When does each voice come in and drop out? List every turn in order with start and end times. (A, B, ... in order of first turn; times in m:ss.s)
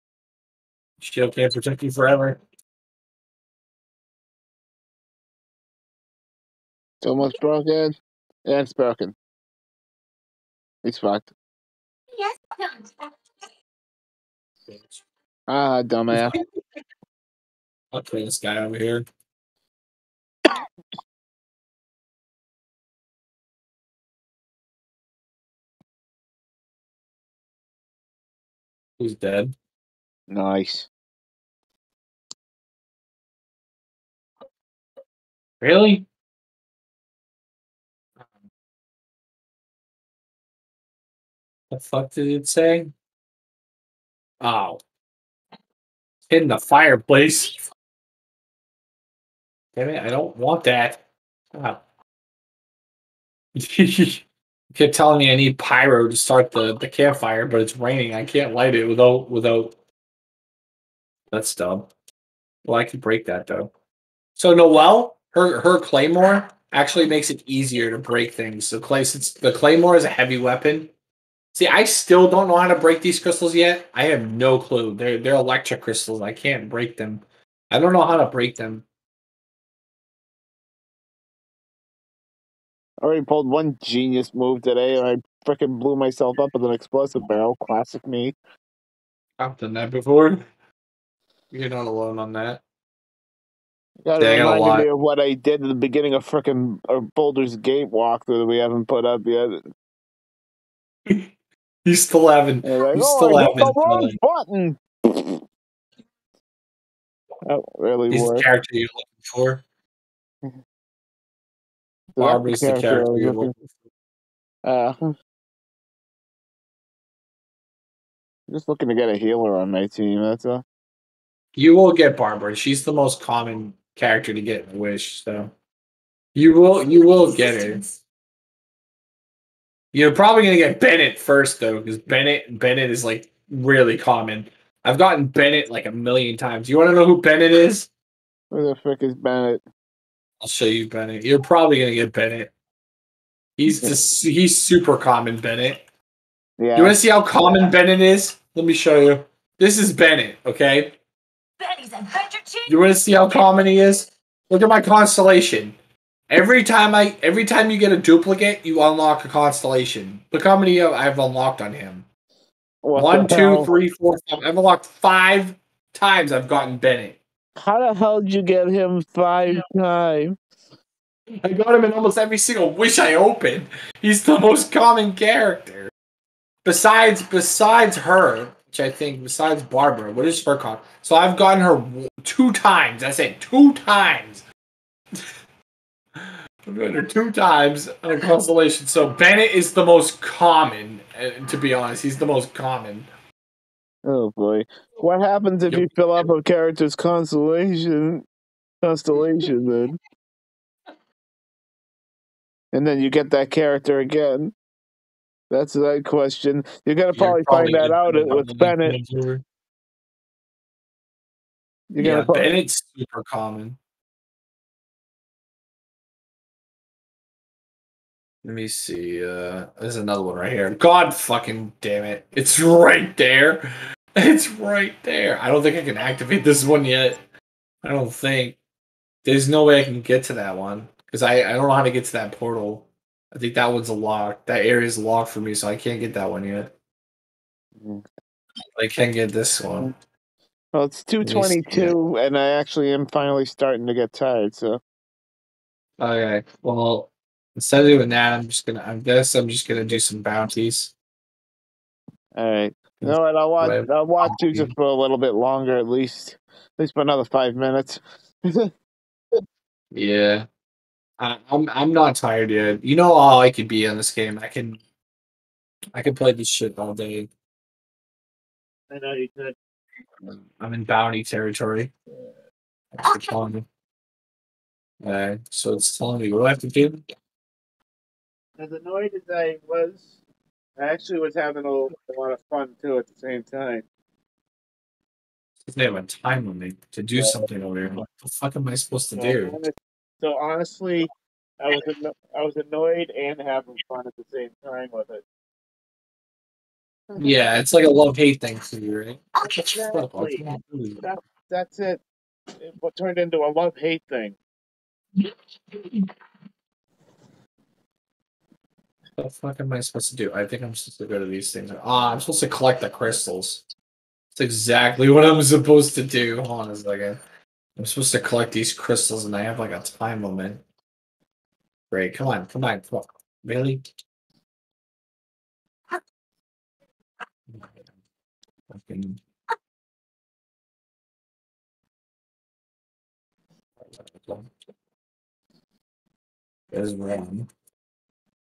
0:01.0-0:02.4 A
0:07.0-0:09.2 B
0:10.8-0:11.3 B
0:12.1-0:13.4 C
0:14.7-0:15.0 A
0:15.5-0:16.4 B
0:16.1-0:16.4 A
0:17.9-0:19.0 A
0:29.0-0:29.6 A
0:30.3-0:30.9 B
0:35.6-0:36.1 A
0:41.7-0:42.9 A
0:44.4-0:44.8 A
0:46.3-0:47.6 A
0:49.8-0:51.0 A
0:51.5-0:51.8 A
0:53.6-0:59.7 A
1:01.3-1:01.9 A
1:02.6-1:03.7 A
1:04.4-1:10.9 A
1:11.5-1:18.8 A
1:23.0-1:28.4 B
1:29.4-1:30.4 A
1:31.5-1:32.6 A
1:34.0-1:39.6 B
1:34.2-1:34.9 A
1:41.8-1:44.2 A
1:42.6-1:45.4 B
1:47.4-1:48.5 B
1:48.1-1:49.6 A
1:52.2-1:53.5 B
1:52.2-1:53.5 A
1:54.6-1:55.1 B
1:58.5-2:00.6 B
2:01.6-2:05.5 A
2:06.4-2:07.8 A
2:07.0-2:07.9 C
2:09.9-2:17.9 A
2:18.5-2:19.6 B
2:20.4-2:22.5 A
2:23.6-2:25.8 A
2:26.6-2:27.0 B
2:26.8-2:31.0 A
2:31.6-2:32.8 C
2:32.7-2:35.8 A
2:36.3-2:42.1 A
2:42.8-2:43.7 B
2:43.0-2:47.2 A
2:47.6-2:50.4 B
2:51.4-2:55.9 A
2:56.6-3:04.4 A
3:06.2-3:13.1 A
3:14.0-3:18.3 B
3:18.8-3:20.0 B
3:22.7-3:24.5 B
3:25.5-3:29.0 B
3:27.1-3:29.4 A
3:31.9-3:32.5 B
3:32.0-3:33.8 A
3:38.4-3:43.6 A
3:44.2-3:47.2 A
3:47.8-3:48.6 A
3:49.2-3:56.7 A
3:57.8-3:58.0 B
3:58.8-3:59.9 A
4:00.7-4:04.8 B
4:01.2-4:02.0 A
4:06.0-4:10.9 A
4:12.4-4:18.7 B
4:13.0-4:14.8 A
4:19.9-4:20.5 A
4:21.2-4:24.8 A
4:25.9-4:27.3 A
4:28.9-4:29.6 B
4:30.3-4:31.9 A
4:33.0-4:33.6 A
4:33.1-4:33.4 C
4:35.0-4:37.0 A
4:38.6-4:40.2 B
4:40.8-4:43.9 B
4:45.6-4:49.6 A
4:47.2-4:47.4 B
4:49.2-4:55.2 B
4:57.2-5:01.1 A
4:59.4-4:59.8 C
4:59.7-5:00.4 B
5:01.0-5:02.0 B
5:02.6-5:04.4 B
5:05.2-5:06.0 C
5:09.2-5:13.6 A
5:14.3-5:17.2 A
5:17.8-5:20.6 A
5:21.9-5:23.8 A
5:27.5-5:27.8 A
5:28.7-5:29.2 A
5:33.8-5:34.5 A
5:36.7-5:37.5 A